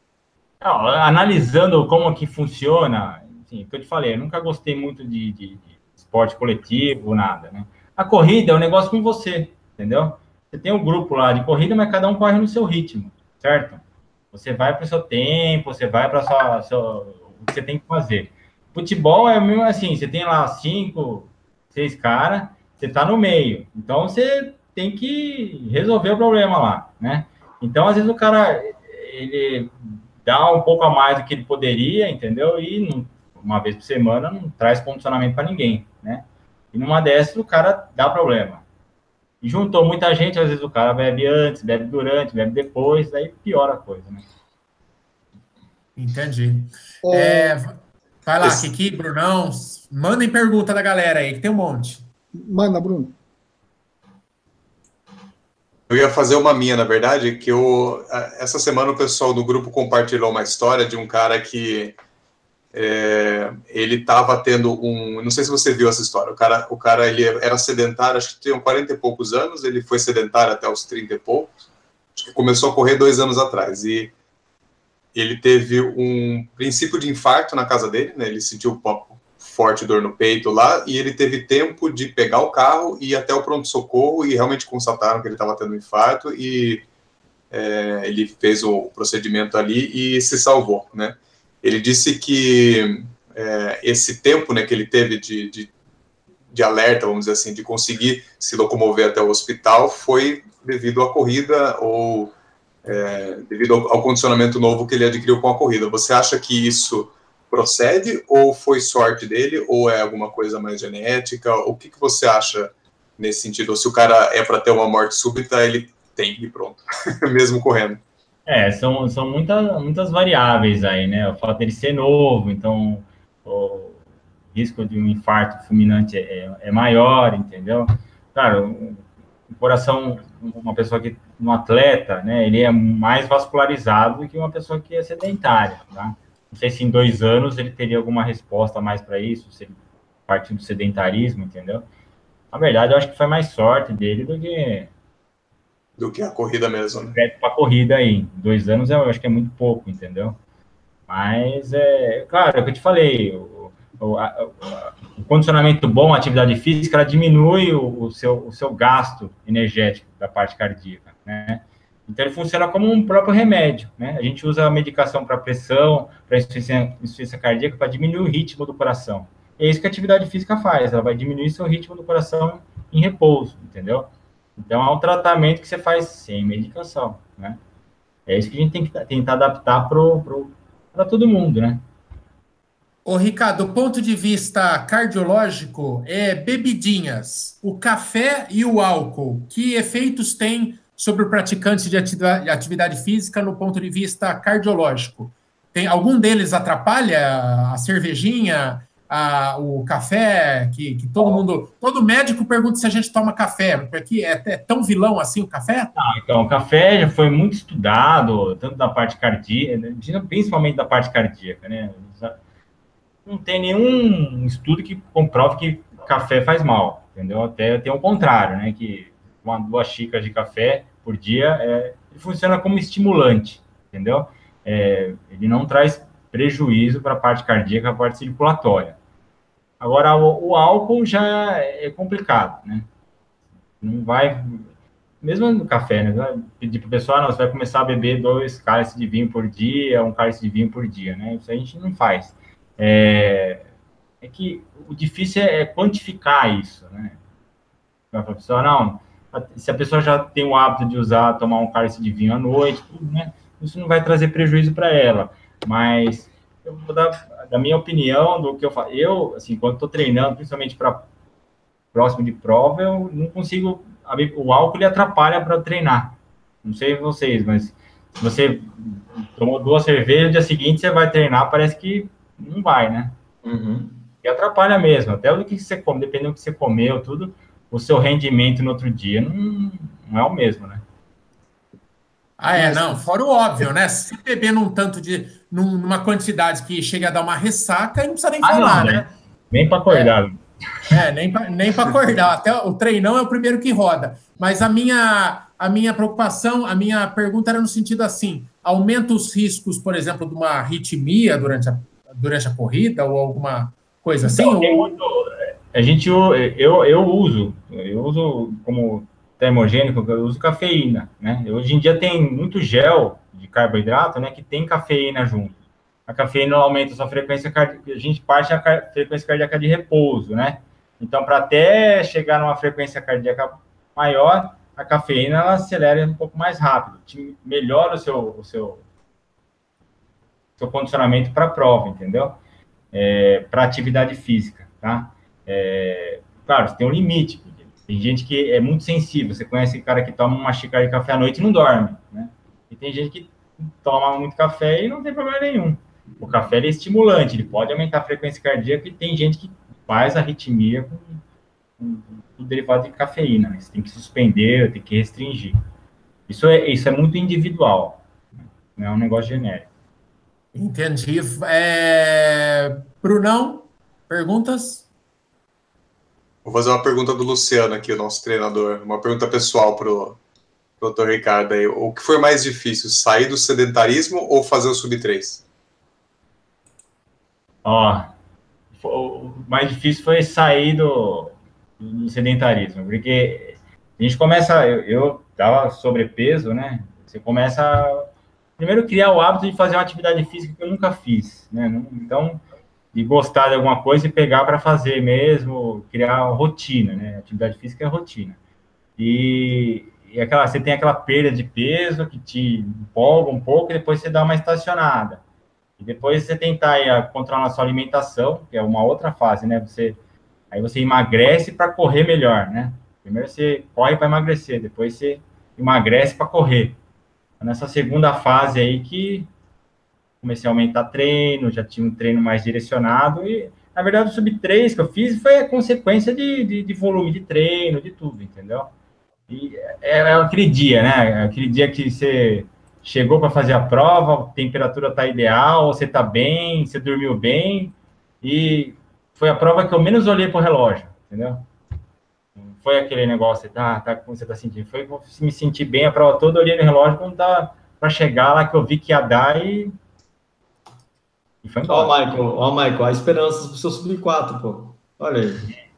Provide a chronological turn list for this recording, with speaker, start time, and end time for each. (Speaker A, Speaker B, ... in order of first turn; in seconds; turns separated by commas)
Speaker A: 0.6-13.8, Speaker A: 14.3-38.6, Speaker A: 39.4-44.2, Speaker B: 46.0-52.1, Speaker C: 47.0-47.6, Speaker C: 52.3-53.1, Speaker D: 55.9-62.0, Speaker D: 62.7-71.5, Speaker D: 72.2-74.1, Speaker D: 75.1-86.9, Speaker D: 87.5-95.7, Speaker D: 96.5-118.0, Speaker A: 118.5-124.0, Speaker A: 124.5-141.9, Speaker A: 142.5-144.9, Speaker D: 146.0-147.2, Speaker A: 147.1-150.4, Speaker A: 151.1-177.6, Speaker A: 178.3-181.8, Speaker B: 183.1-205.9, Speaker A: 205.9-212.4, Speaker A: 213.3-229.0, Speaker A: 229.8-232.9, Speaker A: 233.8-234.7, Speaker A: 235.2-243.7, Speaker A: 244.2-247.2, Speaker A: 248.1-261.1, Speaker A: 261.9-273.1, Speaker E: 273.4-274.0, Speaker A: 274.2-280.8, Speaker B: 282.4-289.1, Speaker C: 282.6-283.0, Speaker A: 288.4-290.4, Speaker B: 289.9-290.2, Speaker B: 290.9-304.9, Speaker A: 304.2-328.8, Speaker A: 330.6-332.4, Speaker A: 332.9-351.2, Speaker A: 351.8-355.6, Speaker A: 356.3-358.0, Speaker A: 358.8-359.7, Speaker B: 360.5-364.9, Speaker D: 366.4-370.2, Speaker D: 370.8-375.4, Speaker A: 377.6-378.1, Speaker A: 378.8-388.1, Speaker A: 388.6-398.4, Speaker A: 399.0-405.2, Speaker A: 405.8-410.0, Speaker A: 410.5-416.8, Speaker A: 417.4-419.3, Speaker A: 420.2-428.7, Speaker A: 429.3-441.5, Speaker A: 442.4-449.8, Speaker A: 451.4-451.9, Speaker E: 451.7-455.5